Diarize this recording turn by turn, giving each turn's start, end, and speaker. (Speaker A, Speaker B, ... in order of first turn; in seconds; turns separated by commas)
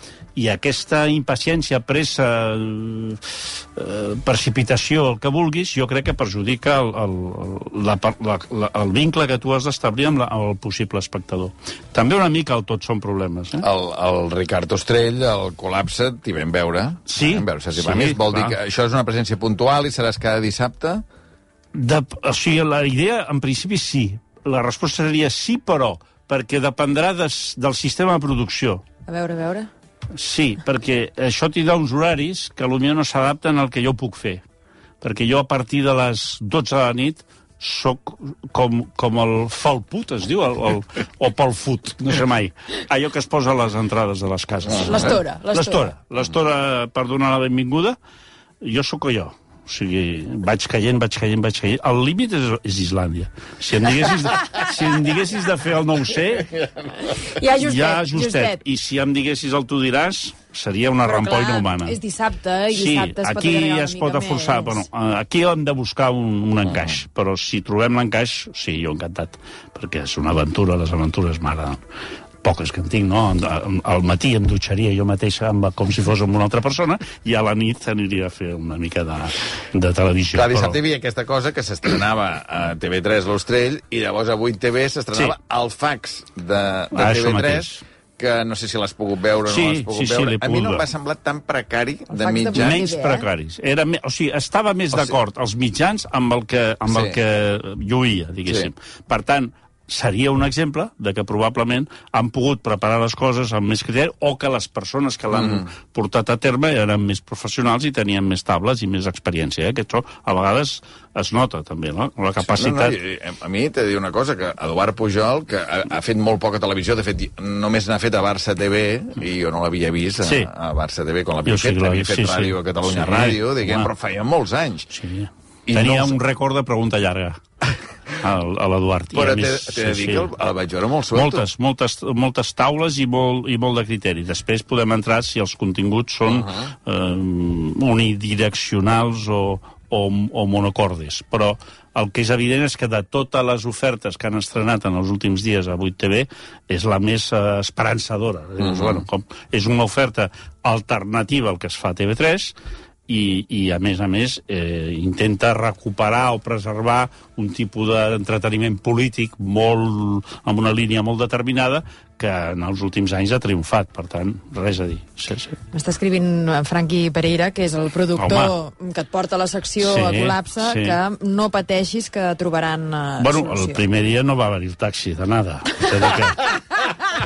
Speaker A: 0.3-13.7, Speaker B: 13.6-21.0, Speaker A: 17.1-18.6, Speaker A: 21.7-28.8, Speaker C: 29.1-29.7, Speaker A: 30.1-34.4, Speaker A: 35.0-48.0, Speaker B: 44.7-45.1, Speaker C: 44.7-45.9, Speaker A: 48.6-56.6, Speaker C: 57.1-58.6, Speaker A: 57.5-62.0, Speaker C: 61.0-64.8, Speaker A: 62.7-71.8, Speaker B: 66.7-67.0, Speaker A: 72.4-80.8, Speaker B: 80.3-92.9, Speaker A: 86.9-87.8, Speaker A: 89.5-90.8, Speaker C: 92.1-93.3, Speaker A: 92.5-113.0, Speaker B: 96.9-97.2, Speaker B: 98.5-98.7, Speaker B: 105.3-105.7, Speaker B: 112.5-124.9, Speaker A: 120.2-120.5, Speaker A: 121.4-123.9, Speaker A: 124.9-127.4, Speaker B: 125.7-126.2, Speaker A: 128.1-130.3, Speaker B: 129.1-131.4, Speaker A: 131.1-152.5, Speaker B: 136.2-136.7, Speaker B: 148.6-149.0, Speaker A: 153.1-165.6, Speaker C: 165.7-173.8, Speaker A: 168.2-168.5, Speaker A: 169.8-171.0, Speaker A: 173.2-176.6